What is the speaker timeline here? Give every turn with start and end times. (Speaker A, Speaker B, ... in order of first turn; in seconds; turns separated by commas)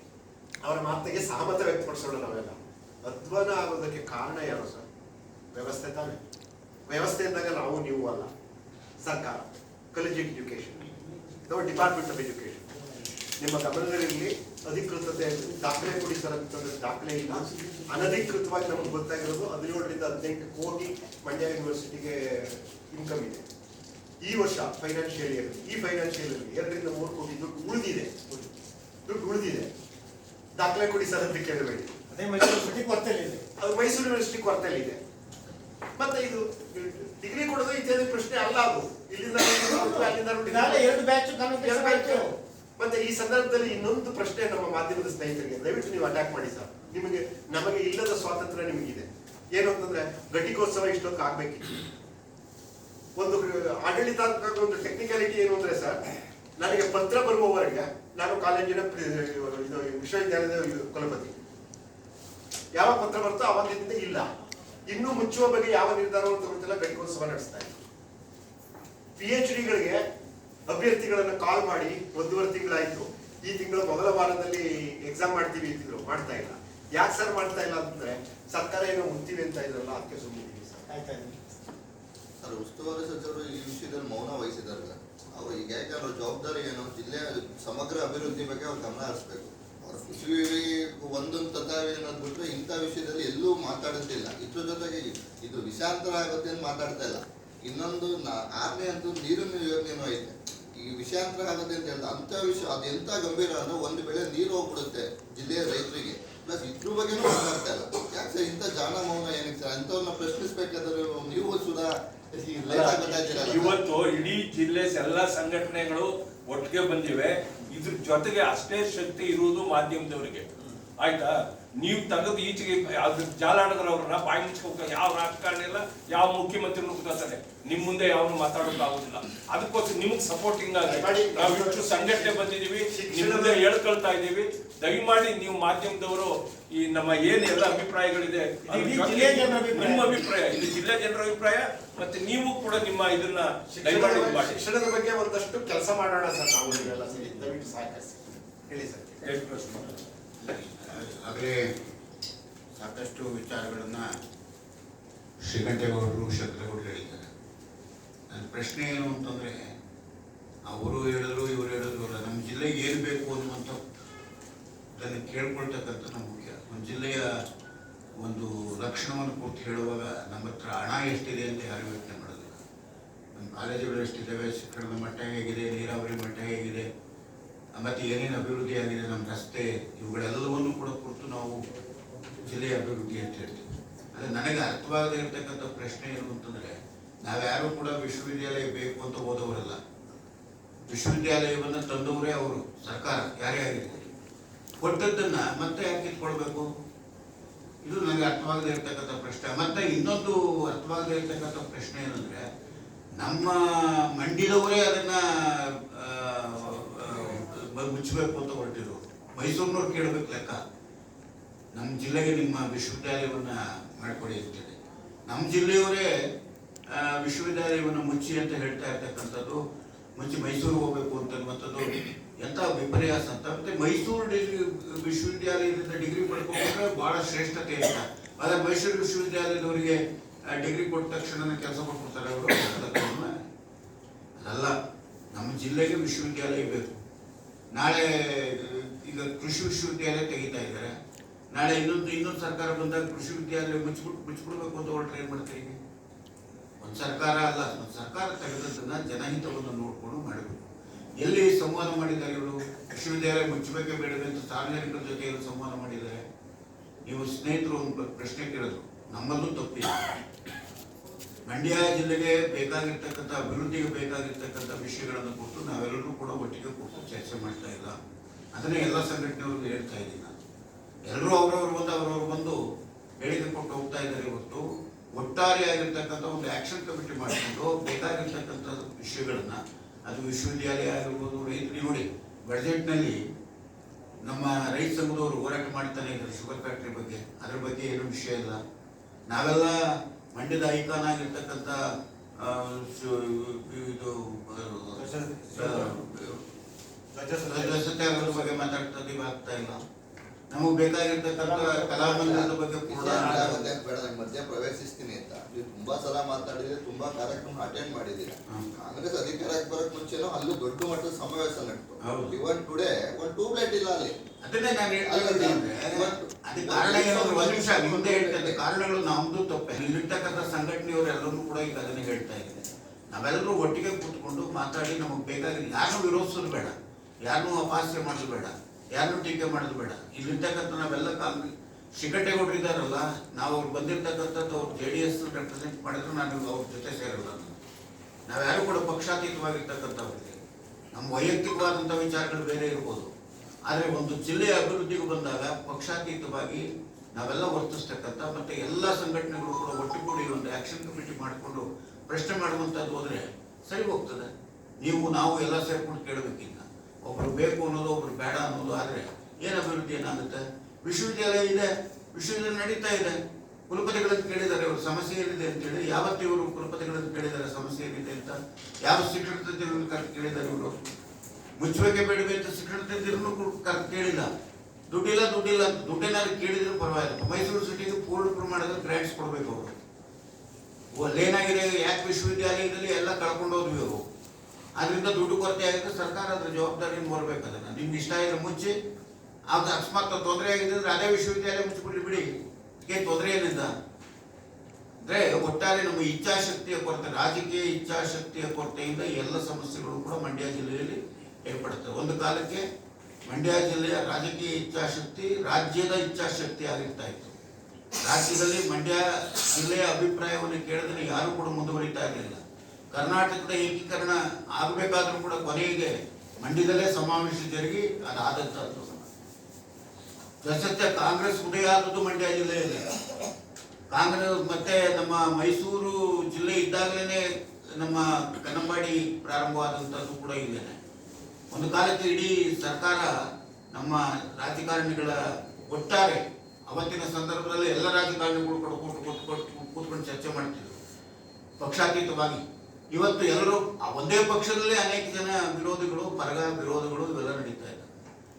Speaker A: 0.6-4.8, Speaker A: 5.5-6.2, Speaker A: 6.9-8.3, Speaker A: 9.0-10.9, Speaker A: 11.5-12.7, Speaker A: 13.4-23.5, Speaker A: 24.2-28.4, Speaker A: 29.1-29.7, Speaker A: 30.6-32.0, Speaker B: 32.1-33.5, Speaker A: 33.6-35.0, Speaker A: 36.0-40.9, Speaker B: 39.7-42.3, Speaker A: 41.6-51.8, Speaker A: 53.2-56.0, Speaker A: 56.6-61.4, Speaker A: 62.7-64.3, Speaker A: 64.9-67.8, Speaker A: 69.2-70.0, Speaker A: 70.7-80.9, Speaker B: 80.9-81.4, Speaker C: 82.4-113.8, Speaker D: 112.7-120.5, Speaker D: 121.0-144.7, Speaker A: 130.8-133.7, Speaker B: 138.7-140.2, Speaker A: 143.7-149.9, Speaker D: 149.2-149.9, Speaker E: 150.4-151.7, Speaker E: 152.8-154.1, Speaker E: 155.4-157.3, Speaker E: 158.3-159.7, Speaker E: 160.7-163.8, Speaker E: 165.0-167.3, Speaker E: 168.2-172.6, Speaker E: 173.3-176.9, Speaker E: 177.8-181.6, Speaker E: 182.5-189.8, Speaker E: 190.9-194.1, Speaker E: 194.8-196.7, Speaker E: 197.8-202.5, Speaker E: 203.2-210.6, Speaker E: 211.8-216.1, Speaker E: 216.9-219.6, Speaker E: 220.2-233.3, Speaker E: 234.4-234.8, Speaker E: 235.3-237.0, Speaker E: 237.7-240.9, Speaker E: 241.5-245.8, Speaker E: 246.8-250.7, Speaker E: 251.2-256.2, Speaker E: 257.1-260.1, Speaker E: 261.5-268.0, Speaker E: 268.5-270.4, Speaker E: 271.1-272.6, Speaker E: 273.2-283.2, Speaker E: 284.2-288.6, Speaker E: 289.3-289.8, Speaker E: 290.3-291.8, Speaker E: 292.4-296.4, Speaker A: 295.0-296.0, Speaker A: 297.1-298.7, Speaker E: 297.4-299.8, Speaker E: 300.5-303.6, Speaker C: 301.9-314.1, Speaker E: 308.5-308.7, Speaker E: 312.0-312.4, Speaker E: 314.4-337.6, Speaker C: 315.0-318.6, Speaker E: 338.3-340.4, Speaker E: 340.9-343.1, Speaker E: 343.6-363.2, Speaker E: 363.7-370.7, Speaker E: 371.6-374.3, Speaker E: 374.9-379.8, Speaker E: 380.9-384.0, Speaker E: 384.8-388.7, Speaker E: 389.5-392.3, Speaker E: 392.9-393.7, Speaker E: 395.1-402.6, Speaker E: 403.3-407.3, Speaker E: 408.0-412.4, Speaker E: 412.9-419.1, Speaker E: 420.4-422.9, Speaker E: 423.9-427.2, Speaker E: 427.8-430.8, Speaker E: 431.5-433.1, Speaker E: 433.7-440.8, Speaker E: 441.6-447.9